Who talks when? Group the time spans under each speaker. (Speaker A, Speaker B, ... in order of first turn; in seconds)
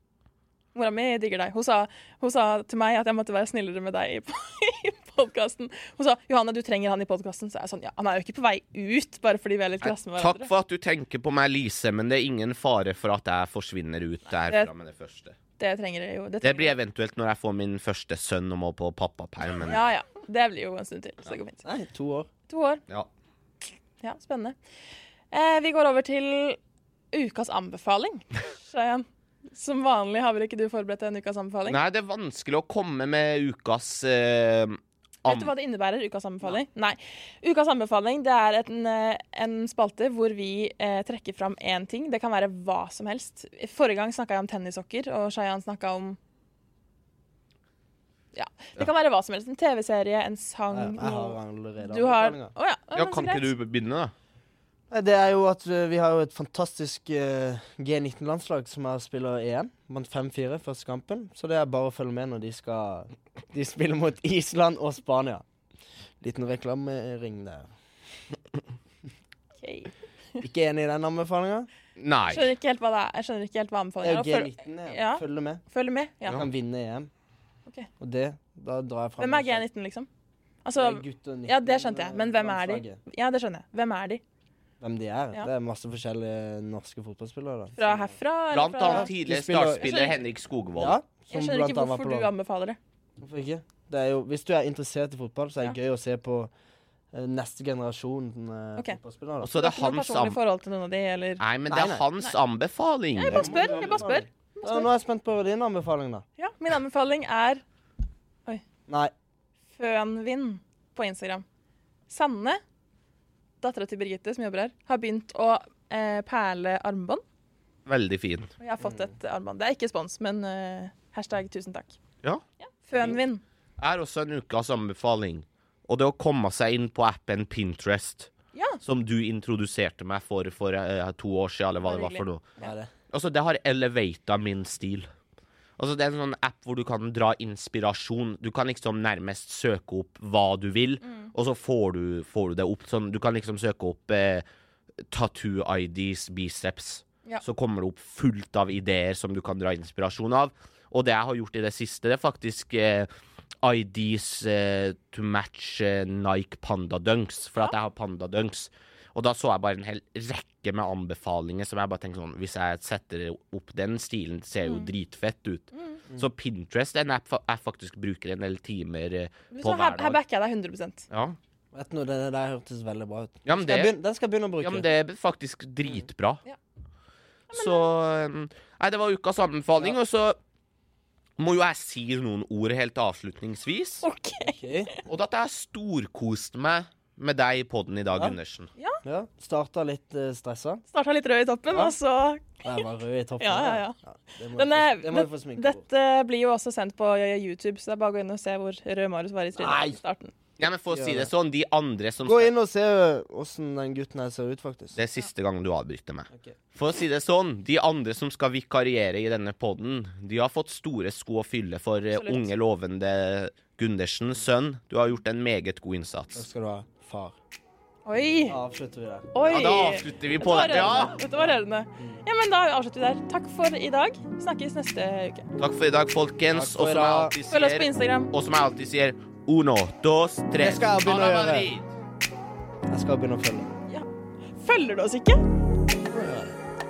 Speaker A: 0.7-10.5, 14.3-14.7, 15.6-16.7, 19.7-21.6, 22.5-22.8, 24.0-24.6, 25.3-26.6, 27.1-31.8, 35.2-46.2, 48.3-53.5, 69.6-70.4, 72.3-76.4, 79.2-80.1, 80.6-84.2, 87.8-89.1, 89.8-90.2, 91.3-92.8, 99.5-101.4, 103.2-104.9, 106.4-107.6, 109.8-111.4, 112.1-112.6, 113.6-117.2, 118.6-122.0, 122.6-123.4, 128.5-128.8, 131.8-132.7, 141.0-141.3, 164.6-164.9, 169.5-171.1, 177.5-177.9, 184.0-185.0, 190.9-192.8, 193.4-193.9, 194.5-200.3, 212.1-212.5, 218.1-218.6, 219.3-225.5, 227.5-228.3, 233.9-235.4
Speaker B: 9.8-15.3, 16.4-19.8, 31.6-35.5, 52.9-54.1, 72.0-72.5, 88.5-91.0, 99.4-100.4, 101.4-103.6, 117.8-118.5, 123.8-128.3, 128.8-132.5, 133.1-135.1, 135.8-144.4, 145.1-153.1, 153.6-170.2, 171.1-171.4, 173.4-173.9, 174.6-176.4, 177.5-180.4, 181.4-184.0, 185.1-188.7, 200.6-202.5, 204.9-216.4, 219.4-221.2, 225.6-231.9
Speaker C: 21.6-22.3, 50.7-52.5, 54.9-65.4, 66.2-67.7, 70.4-71.7, 74.0-75.6, 76.3-77.1, 78.0-79.7, 80.8-83.0, 84.8-88.2, 88.8-89.9, 90.8-92.3, 93.2-96.5, 97.1-99.5, 101.7-102.0, 103.3-106.2, 108.9-109.1, 118.8-119.1, 132.6-132.9, 171.7-174.9, 184.4-184.9, 189.0-190.8, 192.6-195.8, 199.6-200.0, 200.9-201.3, 202.2-205.0, 216.3-217.3, 218.5-219.3, 221.4-222.2, 226.5-227.3, 230.6-231.7, 232.9-233.7, 235.9-236.6